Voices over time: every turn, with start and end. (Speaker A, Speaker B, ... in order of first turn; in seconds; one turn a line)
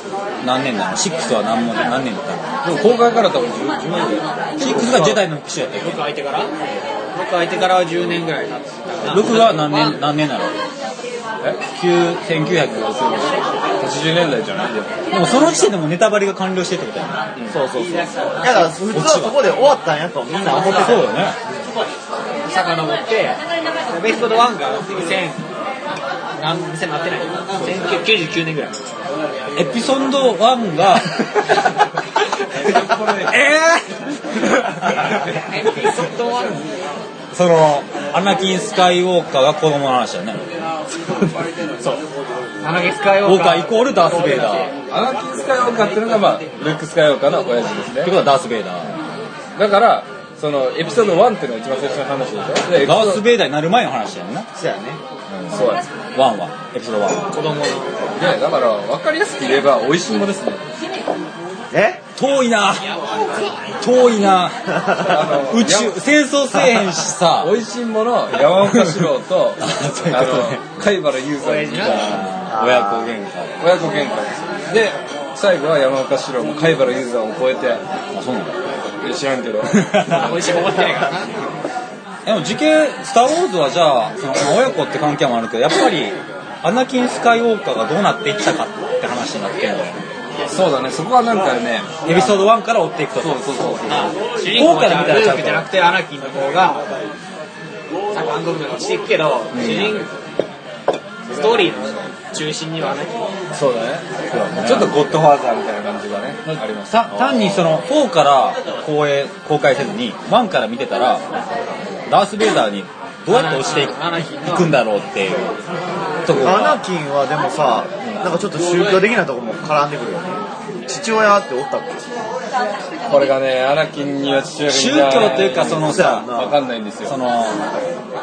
Speaker A: 0.4-2.5
Speaker B: 2.6-5.3
Speaker A: 4.6-6.0
Speaker C: 5.8-6.5
Speaker C: 7.1-10.0
Speaker A: 9.0-10.5
Speaker A: 11.7-13.0
Speaker B: 12.7-15.0
Speaker A: 15.1-17.2
Speaker D: 17.5-21.1
Speaker A: 18.6-19.4
Speaker A: 20.7-21.4
Speaker C: 22.4-25.4
Speaker C: 26.3-28.8
Speaker B: 27.6-28.0
Speaker A: 29.5-31.2
Speaker B: 32.6-33.5
Speaker C: 35.3-36.6
Speaker A: 37.3-40.5
Speaker C: 42.6-44.7
Speaker A: 43.2-44.7
Speaker B: 44.9-48.1
Speaker A: 48.0-49.0
Speaker B: 49.5-53.2
Speaker A: 52.8-54.5
Speaker D: 54.5-55.0
Speaker A: 55.3-55.6
Speaker B: 55.5-55.8
Speaker A: 56.1-57.3
Speaker C: 57.3-58.0
Speaker B: 58.1-60.6
Speaker D: 61.7-62.0
Speaker A: 62.1-62.9
Speaker A: 63.8-67.5
Speaker D: 64.9-65.2
Speaker B: 65.0-66.0
Speaker B: 67.4-72.2
Speaker A: 68.5-69.0
Speaker A: 69.6-70.6
Speaker C: 71.4-72.2
Speaker A: 71.8-73.5
Speaker D: 72.5-73.1
Speaker B: 73.6-77.8
Speaker A: 78.1-78.6
Speaker B: 79.0-80.9
Speaker A: 79.8-80.4
Speaker C: 80.0-81.4
Speaker A: 82.2-90.0
Speaker B: 90.5-92.5
Speaker A: 92.0-93.7
Speaker B: 93.2-94.2
Speaker C: 93.8-96.9
Speaker A: 94.5-95.7
Speaker C: 98.1-100.1
Speaker A: 99.5-99.9
Speaker B: 99.5-100.0
Speaker C: 101.3-103.2
Speaker B: 103.5-104.0
Speaker A: 104.3-105.0
Speaker B: 104.6-107.6
Speaker A: 106.5-111.2
Speaker A: 112.1-115.5
Speaker C: 113.3-114.7
Speaker A: 116.2-116.8
Speaker D: 116.3-122.0
Speaker B: 123.1-127.1
Speaker A: 124.7-126.3
Speaker D: 125.8-126.6
Speaker A: 127.0-127.7